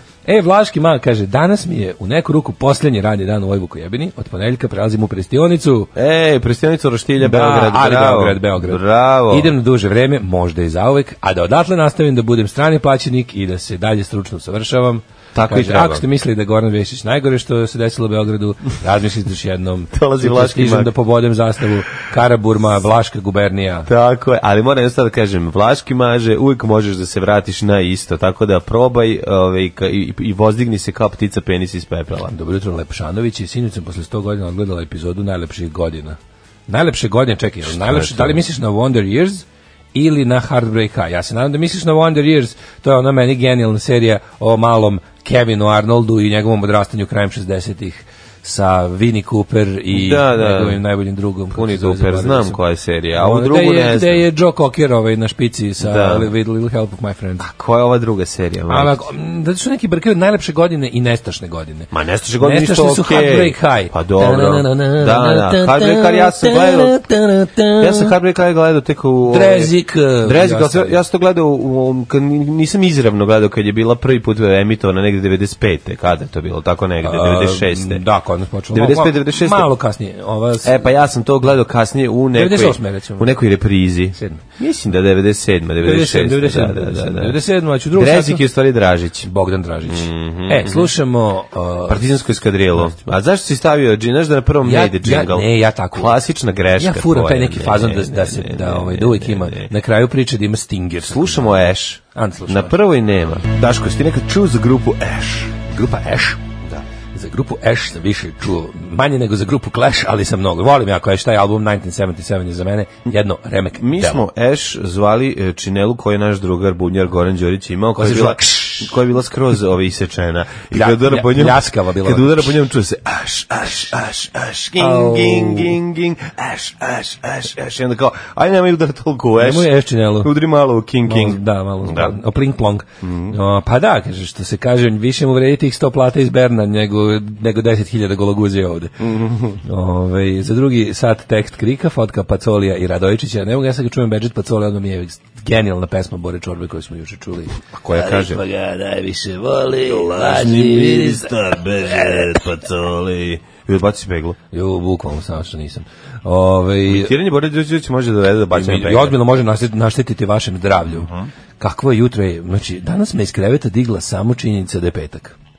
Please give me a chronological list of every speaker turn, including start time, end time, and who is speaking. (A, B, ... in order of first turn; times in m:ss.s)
0:00.2-0:05.9 A
0:05.9-0:09.5 B
0:07.2-0:23.9 A
0:15.3-0:16.0 B
0:19.9-0:20.9 B
0:23.9-0:32.3 B
0:32.3-0:36.2 A
0:36.7-0:39.4 A
0:37.6-0:38.4 B
0:39.9-0:52.6 A
0:49.9-0:50.8 B
0:51.5-0:54.3 B
0:53.2-0:57.4 A
0:55.8-0:56.3 B
0:57.4-0:59.0 B
0:58.7-1:01.9 A
1:01.9-1:07.0 B
1:02.4-1:08.1 A
1:07.8-1:09.7 B
1:09.3-1:11.0 A
1:10.2-1:18.0 B
1:17.0-1:20.9 A
1:18.7-1:19.7 B
1:20.6-1:27.4 B
1:22.3-1:23.3 A
1:24.1-1:24.4 A
1:25.8-1:28.5 A
1:27.9-1:29.3 B
1:29.2-1:32.1 A
1:29.8-1:30.9 B
1:31.9-1:39.7 B
1:32.7-1:33.1 A
1:34.6-1:36.2 A
1:36.8-1:42.8 A
1:41.0-1:45.6 B
1:45.7-1:46.4 A
1:47.1-1:54.2 A
1:53.8-2:12.2 B
1:58.0-1:58.9 A
2:00.7-2:02.6 A
2:04.8-2:05.8 A
2:09.4-2:10.3 A
2:11.1-2:19.0 A
2:13.0-2:13.4 B
2:19.0-2:19.6 B
2:19.6-2:32.4 A
2:27.7-2:28.4 B
2:29.8-2:34.4 B
2:34.5-2:37.1 A
2:36.9-2:39.2 B
2:38.5-2:45.4 A
2:40.9-2:41.3 B